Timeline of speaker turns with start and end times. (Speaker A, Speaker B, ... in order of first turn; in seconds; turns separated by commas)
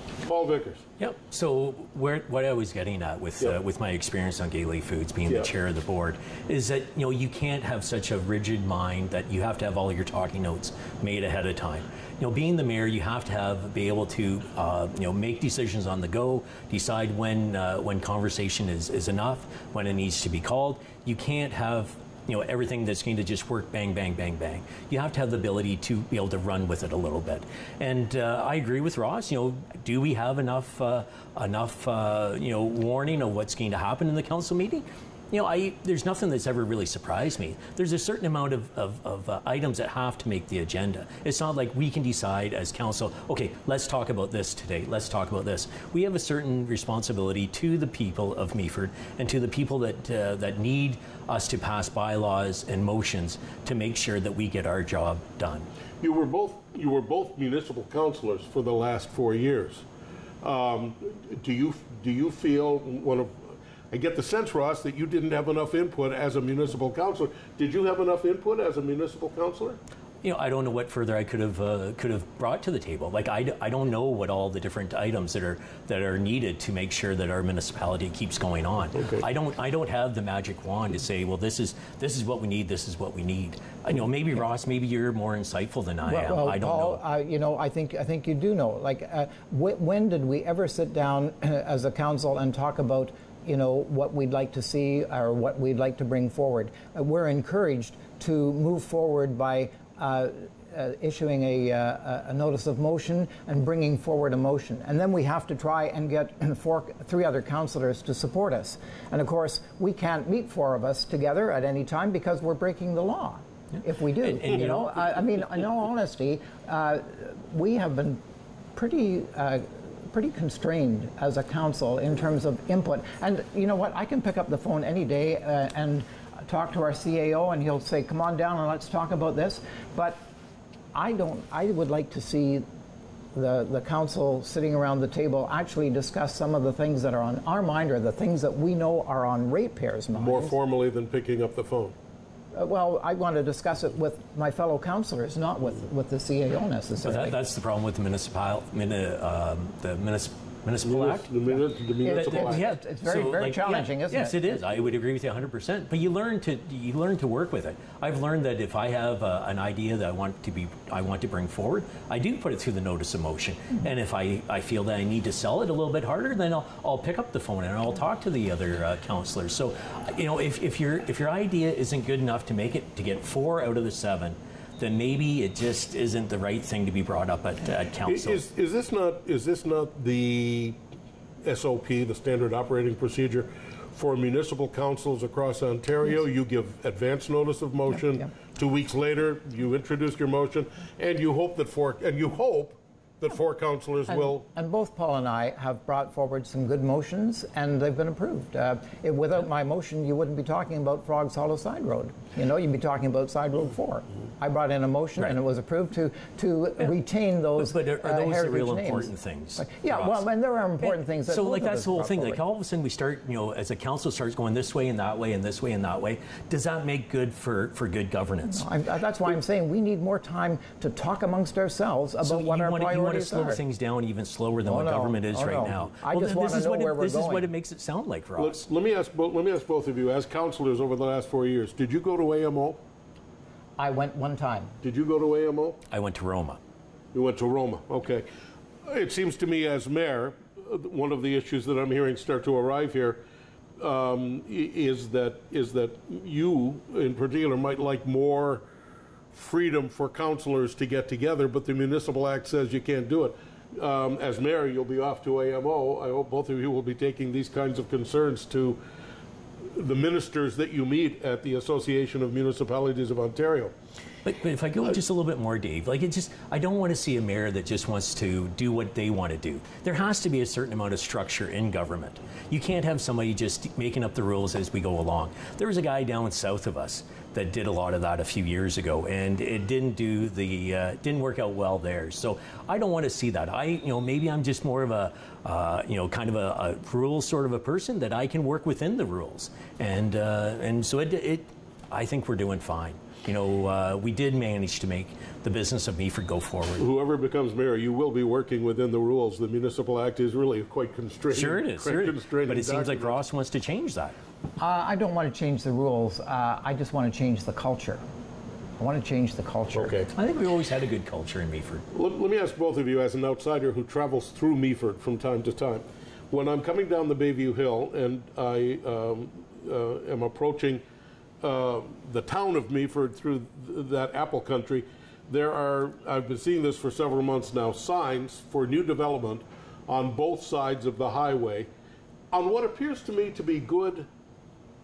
Speaker A: 0.2-0.8, Speaker B: 1.0-55.7, Speaker A: 56.0-59.9, Speaker A: 60.4-69.8, Speaker B: 70.2-87.0, Speaker A: 79.0-79.2, Speaker C: 86.1-118.2, Speaker B: 114.2-115.1, Speaker C: 118.8-130.2, Speaker C: 130.9-132.7, Speaker C: 133.3-140.6, Speaker A: 140.1-142.0, Speaker C: 142.5-147.4, Speaker B: 147.0-151.3, Speaker A: 150.8-152.6, Speaker C: 152.0-154.8, Speaker B: 152.1-178.4, Speaker A: 178.1-180.8, Speaker A: 181.4-194.5, Speaker C: 194.1-212.4, Speaker B: 207.6-210.3, Speaker B: 210.8-218.7, Speaker C: 218.4-223.6, Speaker B: 222.2-228.6, Speaker C: 224.7-227.5, Speaker A: 228.4-232.8, Speaker C: 233.8-234.7, Speaker A: 234.8-235.8, Speaker B: 235.9-236.6, Speaker A: 237.1-238.3, Speaker A: 238.8-243.2, Speaker A: 243.8-248.7, Speaker A: 249.3-258.8, Speaker A: 259.6-263.7, Speaker B: 264.2-296.9, Speaker A: 296.8-303.2, Speaker B: 301.3-304.2, Speaker C: 304.6-308.0, Speaker C: 308.8-310.0, Speaker A: 309.7-310.1, Speaker B: 310.1-311.8, Speaker A: 311.9-320.8, Speaker A: 321.4-331.7, Speaker A: 332.3-334.1